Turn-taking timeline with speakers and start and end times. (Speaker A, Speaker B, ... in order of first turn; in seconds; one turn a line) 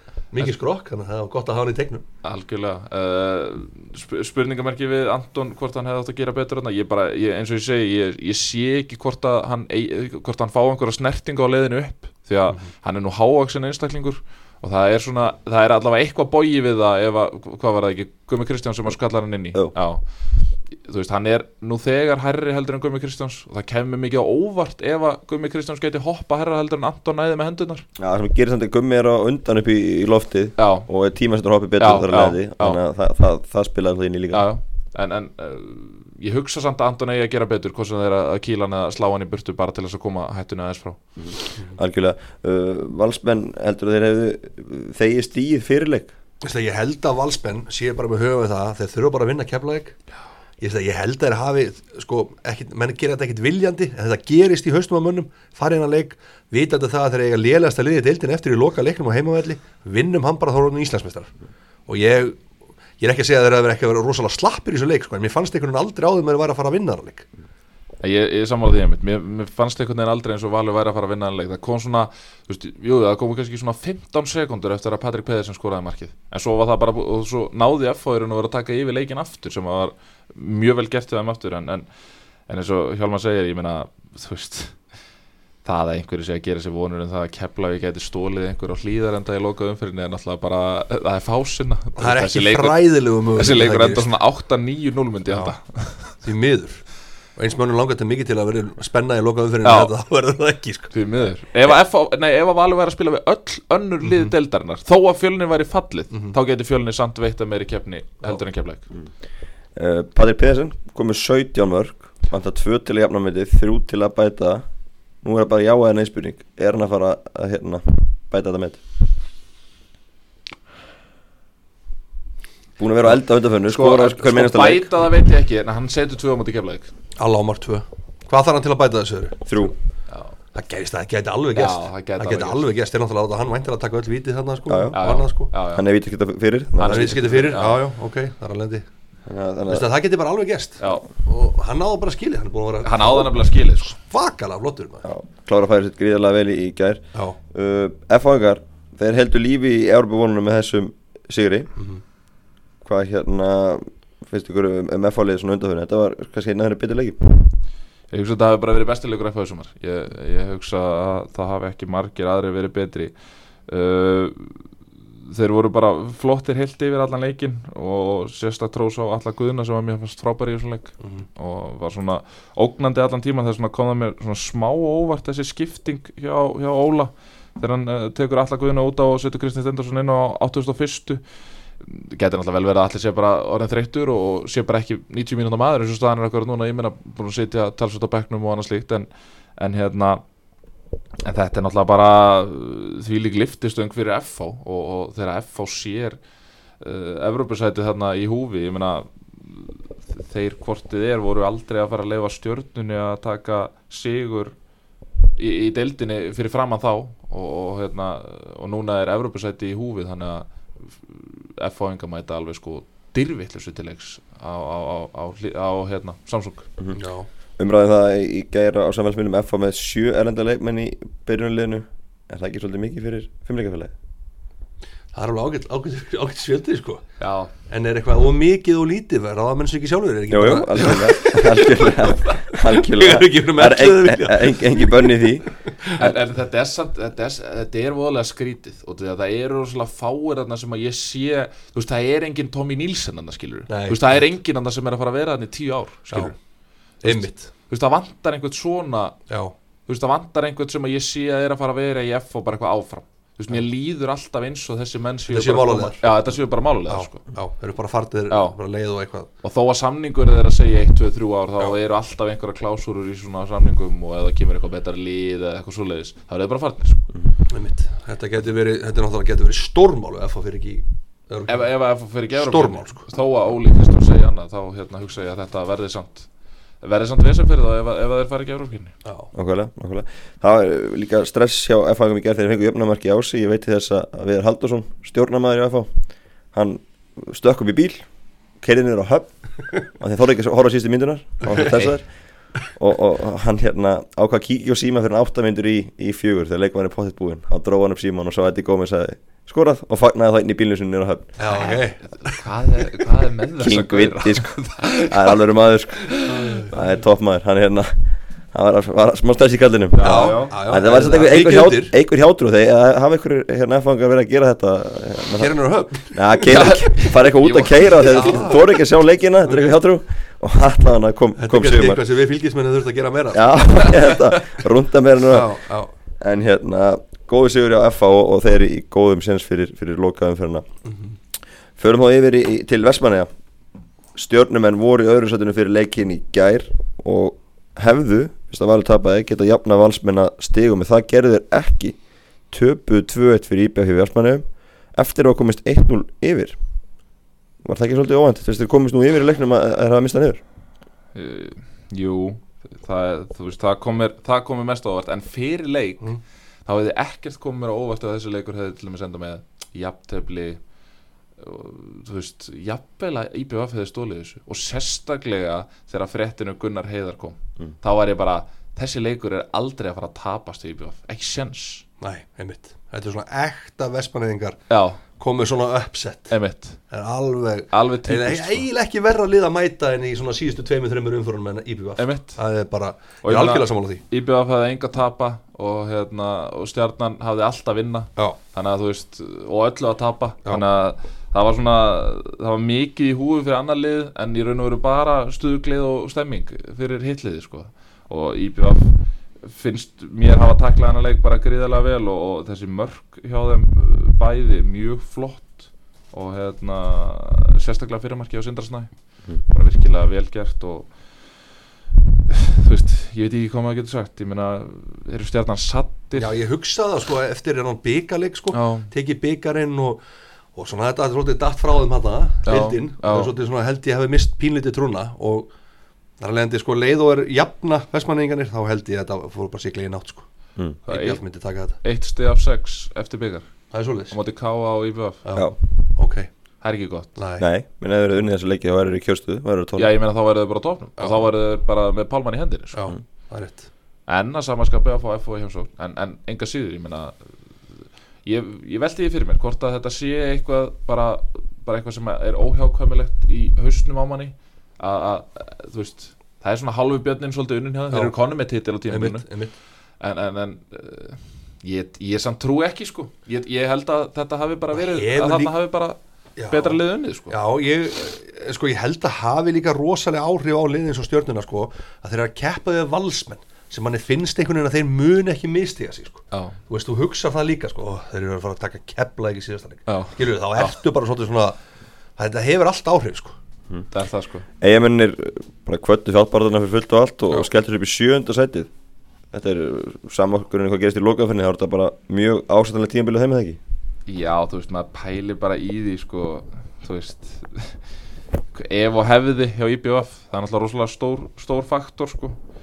Speaker A: 0.3-2.0
Speaker B: 2.2-27.9
Speaker C: 28.0-34.5
Speaker B: 30.6-30.9
Speaker B: 31.8-32.8
Speaker B: 34.3-41.4
Speaker C: 41.2-46.1
Speaker A: 46.4-50.0
Speaker A: 50.6-61.3
Speaker A: 61.9-62.4
Speaker A: 63.0-67.3
Speaker B: 68.0-81.9
Speaker B: 82.5-84.8
Speaker B: 85.6-96.2
Speaker A: 92.0-94.1
Speaker A: 95.3-100.9
Speaker B: 99.6-99.9
Speaker B: 100.9-108.8
Speaker A: 104.0-104.3
Speaker C: 109.7-114.7
Speaker C: 115.2-118.8
Speaker C: 122.8-124.9
Speaker B: 123.7-126.9
Speaker A: 127.2-129.7
Speaker C: 129.4-129.7
Speaker B: 130.1-130.3
Speaker A: 130.5-135.5
Speaker B: 131.5-132.6
Speaker C: 134.7-134.9
Speaker B: 134.9-135.8
Speaker C: 135.6-137.3
Speaker B: 136.8-137.8
Speaker A: 136.8-138.8
Speaker C: 139.3-139.9
Speaker A: 139.7-145.0
Speaker B: 140.8-141.1
Speaker B: 142.8-143.9
Speaker C: 145.0-151.7
Speaker A: 151.8-152.0
Speaker C: 152.8-157.4
Speaker B: 158.1-163.1
Speaker B: 163.7-164.7
Speaker B: 165.2-181.2
Speaker B: 181.8-190.2
Speaker B: 191.2-196.2
Speaker B: 196.8-204.6
Speaker B: 205.4-216.7
Speaker A: 216.9-217.3
Speaker C: 217.6-223.9
Speaker A: 225.1-227.1
Speaker B: 227.2-227.5
Speaker A: 227.7-236.0
Speaker C: 230.3-235.5
Speaker B: 236.0-246.3
Speaker A: 243.7-244.2
Speaker A: 246.1-246.3
Speaker B: 247.0-249.3
Speaker A: 247.0-247.5
Speaker B: 249.8-257.3
Speaker A: 255.3-256.1
Speaker A: 256.9-259.3
Speaker B: 258.3-258.6
Speaker B: 259.4-267.1
Speaker A: 267.5-273.1
Speaker B: 271.5-278.9
Speaker C: 279.3-288.1
Speaker C: 288.6-301.4
Speaker A: 291.5-291.8
Speaker B: 291.6-291.9
Speaker A: 301.4-302.4
Speaker B: 301.4-305.4
Speaker C: 303.6-306.1
Speaker B: 306.0-306.7
Speaker A: 306.2-306.8
Speaker C: 306.7-315.5
Speaker B: 309.9-310.6
Speaker A: 310.0-311.9
Speaker A: 315.4-316.5
Speaker C: 316.1-322.0
Speaker B: 316.4-318.5
Speaker A: 318.1-318.7
Speaker A: 319.4-319.7
Speaker A: 321.4-324.1
Speaker C: 323.3-325.6
Speaker A: 325.3-325.9
Speaker C: 326.2-330.6
Speaker A: 330.8-331.1
Speaker C: 331.8-333.3
Speaker C: 334.1-346.6
Speaker C: 347.6-350.4
Speaker B: 351.1-360.6
Speaker B: 361.4-371.9
Speaker A: 372.0-384.0
Speaker B: 374.7-375.0
Speaker B: 376.3-376.8
Speaker B: 377.7-378.6
Speaker B: 382.0-382.4
Speaker B: 383.2-411.6
Speaker B: 412.3-416.3
Speaker A: 416.1-420.0
Speaker B: 418.5-418.9
Speaker A: 420.5-425.5
Speaker B: 422.4-423.3
Speaker A: 426.2-430.3
Speaker A: 430.8-431.8
Speaker B: 430.9-431.2
Speaker B: 431.7-435.2
Speaker A: 433.7-434.2
Speaker A: 435.2-436.3
Speaker B: 436.6-437.2
Speaker A: 437.1-437.4
Speaker C: 437.4-439.9
Speaker B: 439.7-442.9
Speaker A: 441.0-441.3
Speaker A: 442.7-443.7
Speaker B: 444.1-467.4
Speaker A: 457.9-458.1
Speaker A: 458.9-459.5
Speaker A: 464.7-465.5
Speaker A: 466.4-481.6
Speaker B: 476.3-476.6
Speaker B: 479.9-480.7
Speaker A: 482.1-483.4
Speaker B: 483.9-484.4
Speaker C: 484.6-488.7
Speaker C: 489.3-493.6
Speaker B: 494.1-497.9
Speaker B: 498.5-502.4